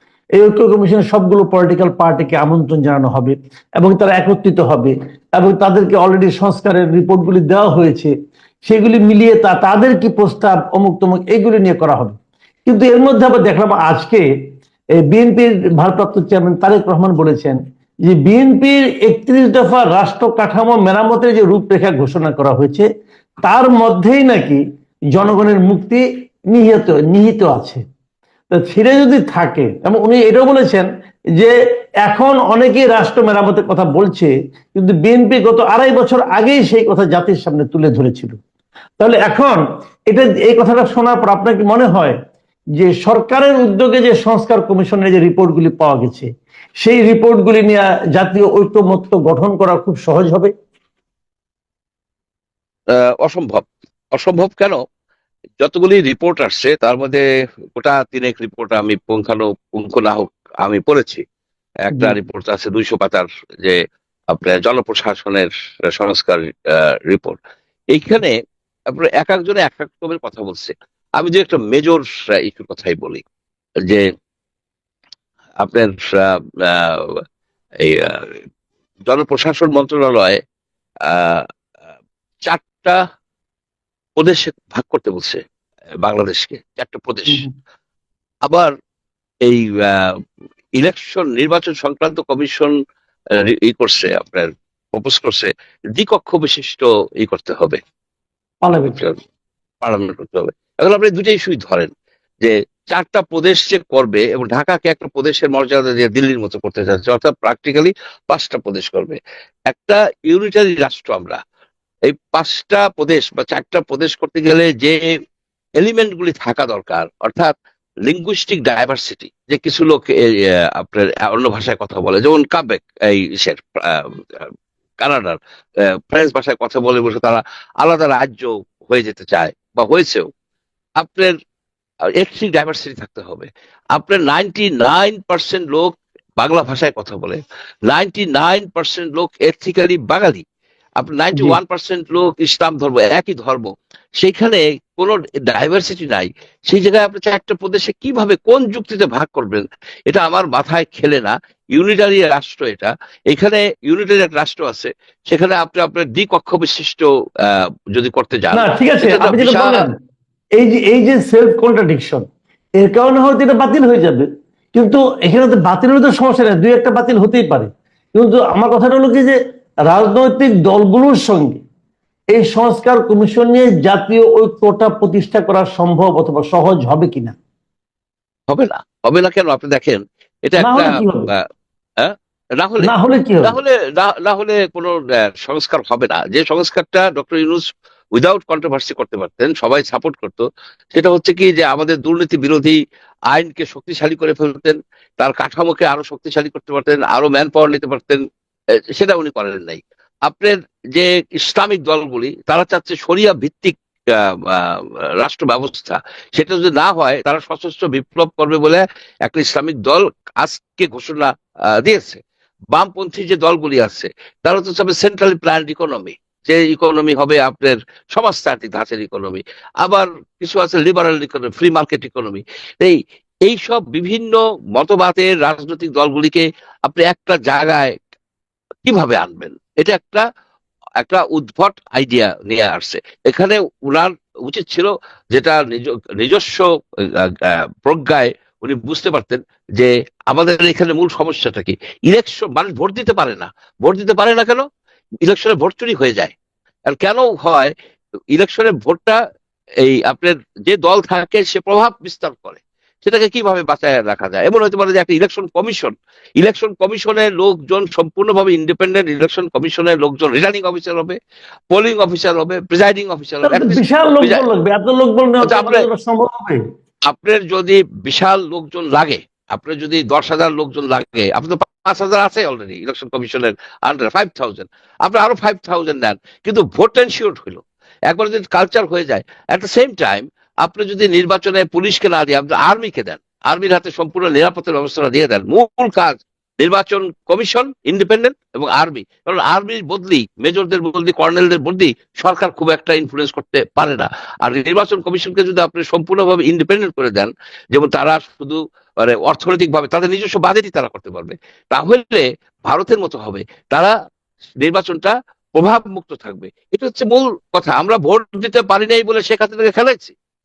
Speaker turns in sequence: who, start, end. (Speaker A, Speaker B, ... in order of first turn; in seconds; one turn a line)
Speaker A: 0.4-8.1
Speaker A: 8.7-14.2
Speaker A: 15.1-22.9
Speaker A: 23.4-24.6
Speaker A: 25.1-27.8
Speaker A: 28.5-38.4
Speaker A: 39.0-42.2
Speaker A: 42.8-46.3
Speaker A: 46.8-50.5
Speaker B: 52.9-54.8
Speaker B: 55.6-57.2
Speaker B: 57.8-61.2
Speaker B: 61.9-63.8
Speaker A: 61.9-62.2
Speaker B: 64.3-67.4
Speaker B: 67.9-68.3
Speaker B: 68.9-73.2
Speaker B: 75.6-77.2
Speaker B: 77.8-78.4
Speaker B: 79.1-80.4
Speaker B: 81.1-81.4
Speaker B: 82.4-83.0
Speaker B: 84.2-85.4
Speaker B: 86.0-87.5
Speaker B: 88.5-88.7
Speaker B: 89.4-90.2
Speaker B: 90.8-92.7
Speaker B: 93.3-97.8
Speaker A: 98.6-99.0
Speaker B: 98.8-99.2
Speaker B: 99.8-101.9
Speaker B: 102.4-111.4
Speaker B: 112.1-115.0
Speaker B: 115.8-117.5
Speaker B: 118.1-130.3
Speaker B: 131.0-131.3
Speaker B: 132.2-140.4
Speaker B: 141.0-159.9
Speaker A: 158.5-159.9
Speaker A: 160.6-162.2
Speaker A: 162.8-171.6
Speaker A: 172.3-177.3
Speaker B: 178.5-181.4
Speaker A: 180.6-181.3
Speaker B: 182.0-182.9
Speaker A: 182.8-183.6
Speaker B: 183.4-192.8
Speaker B: 193.3-198.2
Speaker B: 199.0-212.2
Speaker B: 212.7-227.9
Speaker B: 228.8-230.2
Speaker B: 231.0-244.7
Speaker B: 245.2-246.3
Speaker B: 246.9-247.7
Speaker B: 248.3-249.2
Speaker B: 249.8-261.2
Speaker B: 261.7-264.4
Speaker A: 263.4-266.6
Speaker B: 265.4-265.9
Speaker B: 267.1-303.9
Speaker B: 304.6-310.1